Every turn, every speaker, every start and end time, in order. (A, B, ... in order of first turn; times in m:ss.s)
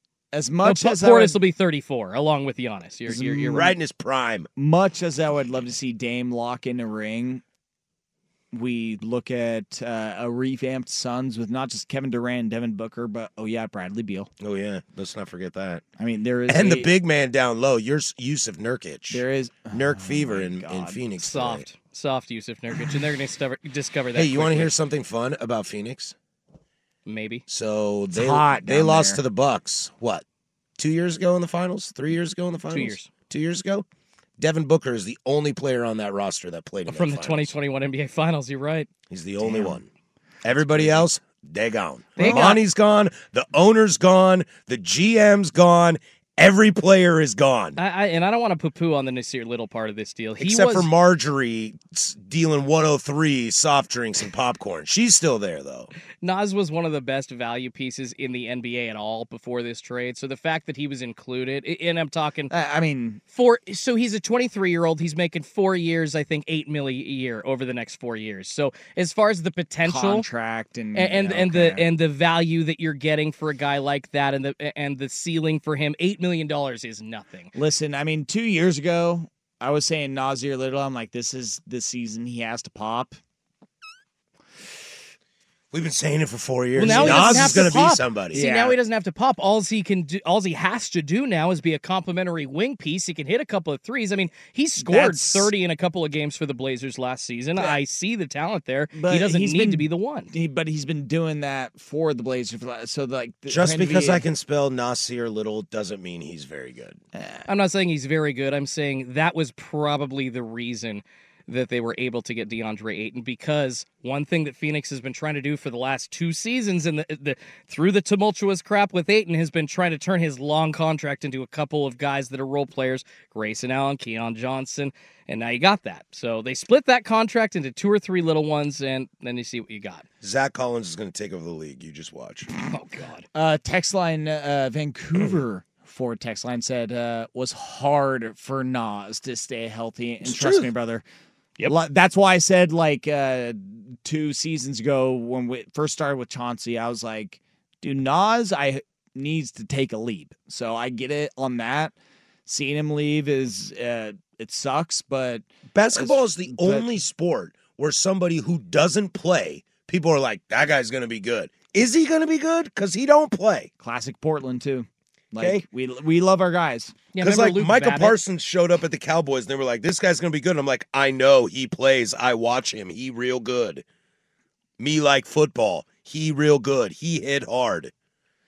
0:00.3-0:01.4 A
0:00.6-0:03.7 B
0:03.1-0:03.7 A
0:03.5-0:04.5 C
0:04.6-0:07.4 A
0:08.5-0:14.3 A
0:14.4-0:15.8 C
0:16.0-0:16.9 A
0:16.5-0:21.6 C
0:19.1-0:21.0 A
0:21.2-0:24.7 B
0:24.1-0:26.1 C
0:27.0-0:27.4 B
0:27.5-0:30.2 C
0:28.1-0:29.2 A
0:30.8-0:33.8 C
0:32.7-0:33.1 B
0:34.4-0:37.5 C
0:36.9-0:38.9 B
0:39.1-0:39.9 C
0:39.4-0:39.8 A
0:40.4-0:47.8 C
0:40.6-0:41.0 A
0:42.2-0:42.6 B
0:42.2-0:42.6 A
0:47.8-0:50.9 B
0:50.4-0:55.9 C
0:56.2-1:02.5 B
1:02.5-1:03.2 A
1:03.3-1:10.2 B
1:09.8-1:11.9 A
1:10.9-1:17.5 B
1:17.5-1:23.2 A
1:25.7-1:28.4 C
1:26.8-1:28.8 A
1:26.8-1:40.3 B
1:34.8-1:35.5 A
1:38.9-1:44.2 A
1:43.5-1:47.0 C
1:47.1-1:47.5 A
1:47.5-2:10.0 B
2:10.2-2:12.5 C
2:12.6-2:13.2 B
2:13.3-2:21.0 A
2:20.2-2:20.7 C
2:21.6-2:31.9 A
2:32.4-2:37.0 A
2:35.7-2:43.7 C
2:43.8-2:46.9 A
2:45.4-2:45.6 C
2:47.1-2:48.2 B
2:47.2-2:53.8 C
2:54.8-2:57.9 C